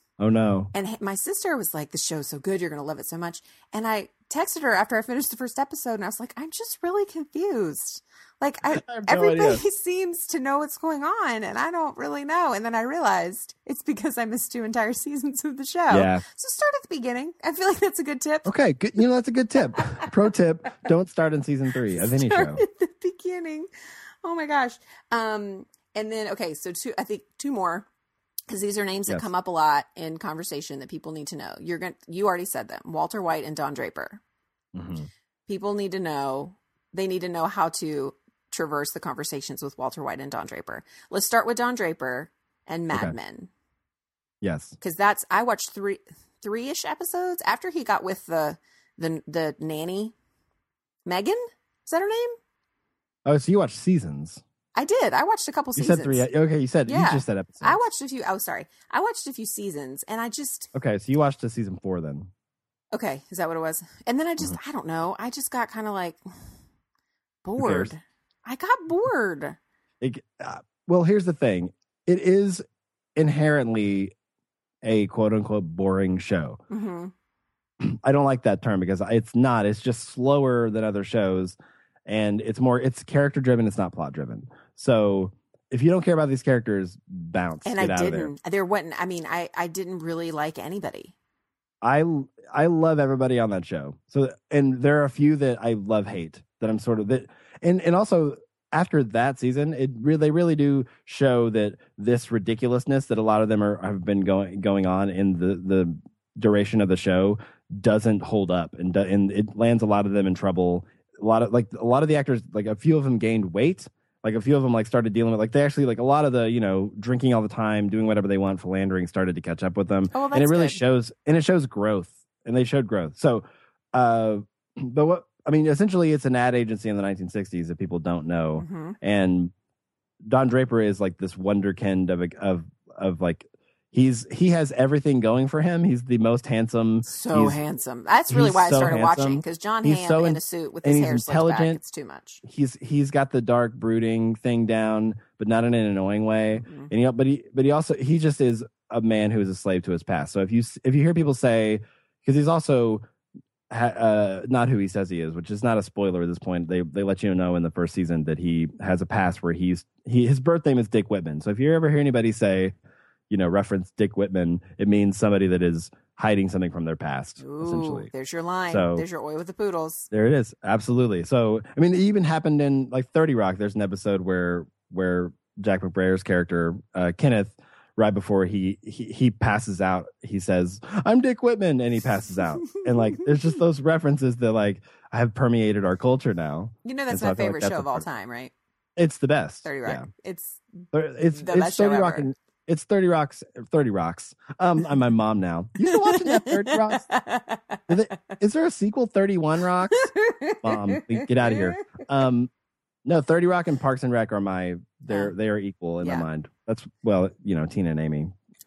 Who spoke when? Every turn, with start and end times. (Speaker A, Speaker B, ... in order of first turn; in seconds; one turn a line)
Speaker A: 0.2-0.7
Speaker B: 0.7-18.5
Speaker A: 8.7-9.6
Speaker A: 15.9-16.2
Speaker A: 18.4-22.6
Speaker B: 19.8-20.1
Speaker B: 22.0-23.7
Speaker B: 24.2-27.9
Speaker B: 28.5-34.2
Speaker A: 34.7-35.1
Speaker B: 35.5-43.5
Speaker A: 44.4-44.8
Speaker B: 44.8-50.1
Speaker B: 51.0-52.4
Speaker A: 53.2-54.4
Speaker B: 54.7-56.2
Speaker A: 55.8-57.8
Speaker B: 56.9-60.7
Speaker A: 60.7-62.3
Speaker B: 62.9-66.2
Speaker B: 67.4-69.6
Speaker A: 67.6-67.9
Speaker A: 70.0-72.6
Speaker A: 73.2-74.1
Speaker A: 74.8-76.6
Speaker B: 76.7-77.1
Speaker A: 77.8-88.3
Speaker B: 87.6-91.1
Speaker A: 91.8-129.5
Speaker B: 120.1-120.8
Speaker B: 128.6-128.9
Speaker A: 130.2-137.6
Speaker B: 137.1-142.4
Speaker A: 138.3-141.8
Speaker A: 142.4-153.0
Speaker B: 146.6-146.9
Speaker A: 153.7-162.7
Speaker A: 163.3-168.1
Speaker B: 167.4-170.1
Speaker A: 168.7-169.0
Speaker A: 170.1-188.0
Speaker B: 182.6-183.2
Speaker B: 186.8-188.5
Speaker A: 189.0-190.1
Speaker B: 189.6-190.6
Speaker A: 190.9-197.1
Speaker B: 191.3-192.3
Speaker B: 195.8-198.1
Speaker A: 197.9-200.0
Speaker B: 199.9-202.0
Speaker A: 200.6-202.5
Speaker A: 203.0-208.3
Speaker B: 206.0-206.2